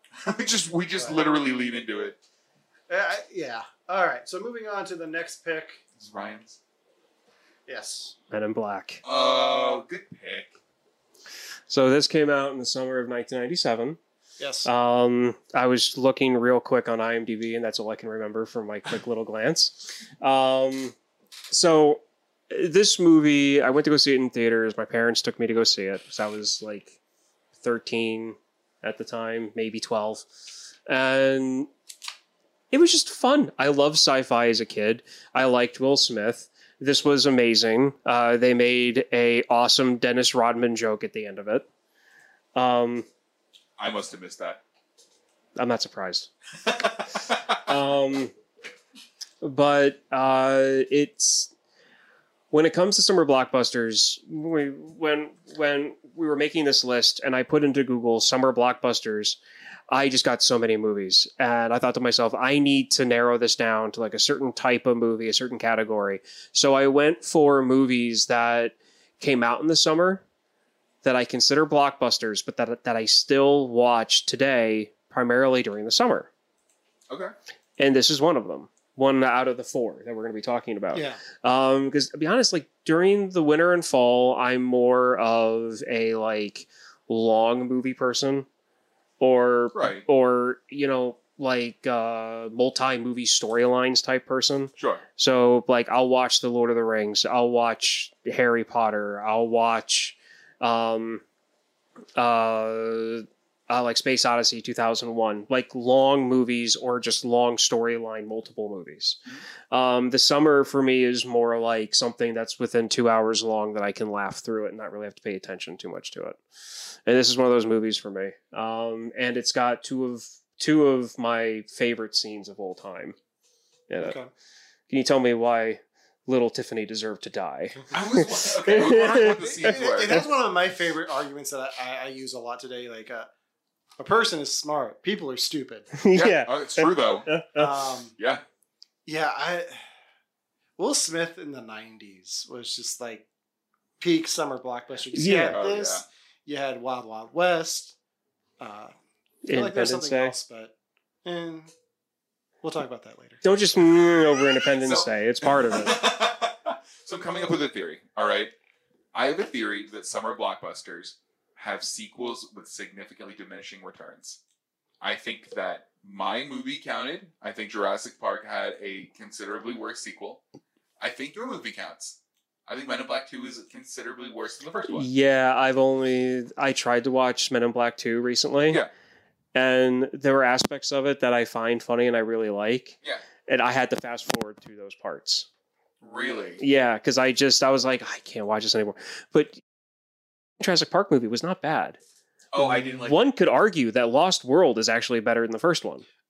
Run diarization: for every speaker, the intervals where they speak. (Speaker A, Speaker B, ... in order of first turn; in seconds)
Speaker A: 0.2-2.2, 6.0-6.6, 9.0-10.5, 43.8-44.6, 46.6-47.7, 89.7-90.0, 94.8-95.0, 127.9-130.2, 136.1-137.3, 138.2-138.4, 145.5-146.0, 154.4-158.5, 159.1-164.4, 165.0-170.4, 171.0-175.1, 186.0-186.6, 192.5-193.3
Speaker B: 1.0-1.3, 2.9-5.8, 7.7-8.2, 14.4-14.7, 80.9-81.2, 124.0-124.3, 129.4-133.3, 134.0-135.9, 137.6-138.2, 139.1-139.8, 140.8-143.3, 144.0-148.0, 148.6-148.9, 149.5-150.7, 151.2-151.7, 152.6-153.4
Speaker C: 8.3-9.0, 11.7-14.0, 14.7-20.9, 21.5-27.0, 27.6-30.3, 30.9-31.7, 32.7-41.7, 42.5-43.1, 45.6-46.3, 47.5-48.3, 49.4-51.5, 52.5-59.4, 59.9-70.2, 71.0-76.3, 77.8-88.5, 89.2-101.2, 102.2-109.2, 109.7-116.4, 117.1-123.2, 123.9-124.2, 124.9-130.2, 136.0-137.8, 145.1-145.6, 149.4-150.3, 153.4-156.0, 174.9-178.8, 179.6-183.0, 183.5-185.5, 186.6-189.6, 190.6-192.0, 192.6-196.1